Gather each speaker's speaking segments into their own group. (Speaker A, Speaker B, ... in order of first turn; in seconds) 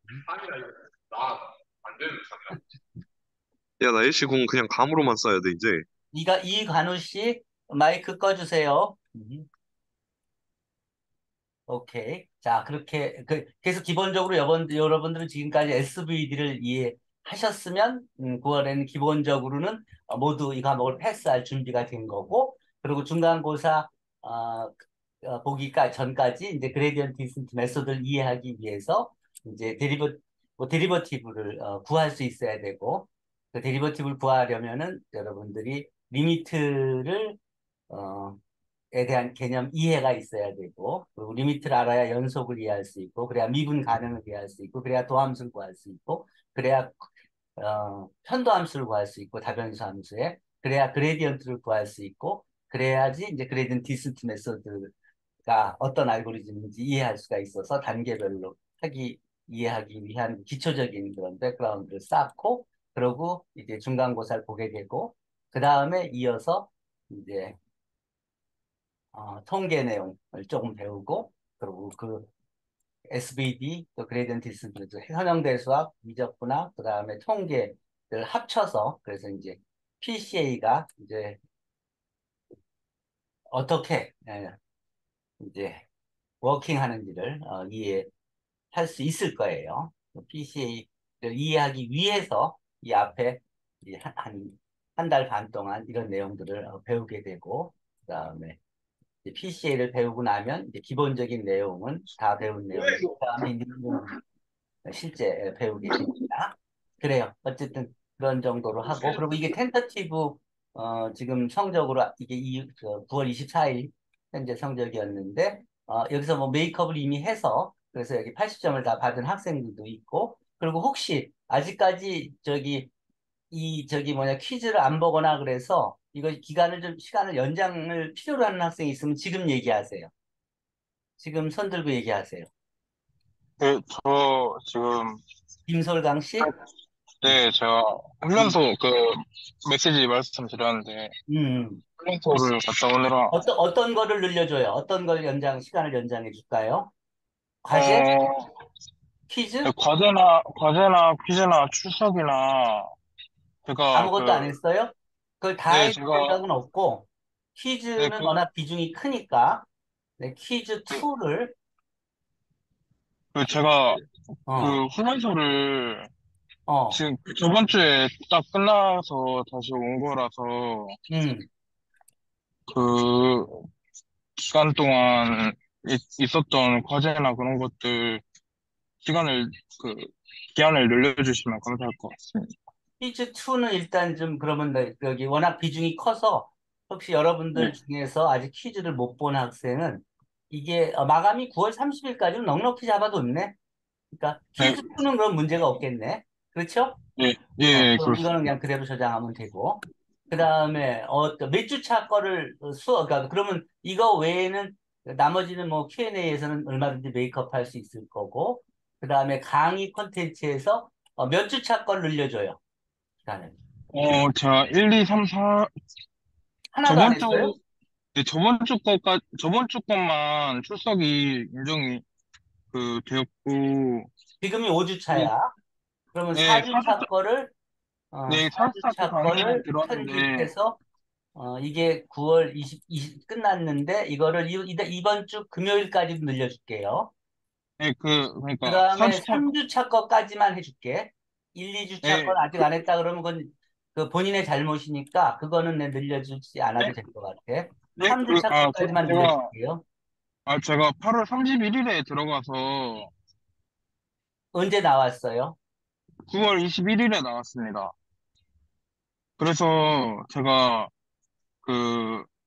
Speaker A: 0.3-2.6, 3.8-5.8
Speaker B: 6.1-9.5, 11.7-37.4, 37.9-38.4, 38.9-54.9, 55.4-67.6, 69.1-72.3, 73.1-81.4, 83.5-84.6, 85.4-85.8, 86.4-88.1, 88.7-98.6, 99.2-104.1, 104.8-122.9, 123.5-130.1, 131.2-132.5, 135.7-136.5, 141.3-141.8, 143.3-146.9, 147.6-148.1, 149.3-149.7, 153.9-159.7, 160.2-161.5, 164.5-164.8, 166.7-167.0, 171.1-171.5, 183.0-193.5, 194.1-197.0, 197.7-212.6, 213.2-213.5, 216.7-217.5, 224.4-225.5, 226.1-227.5, 228.1-230.8, 231.3-237.1, 238.6-249.8, 254.5-255.6
Speaker C: 133.6-135.2, 137.2-141.1, 142.0-143.3, 147.7-148.5, 149.6-152.9, 153.7-154.6, 155.7-156.4, 158.0-158.4, 163.3-164.0, 164.6-166.1, 166.9-171.0, 172.7-173.6, 174.4-178.2, 179.0-182.5, 197.2-198.4, 213.9-215.7, 216.8-217.6, 218.1-222.0, 222.7-224.1, 226.3-227.1, 228.3-230.5, 237.8-239.5, 242.0-242.4, 247.9-249.5, 250.5-253.1, 256.3-257.9, 259.4-260.9, 261.6-262.3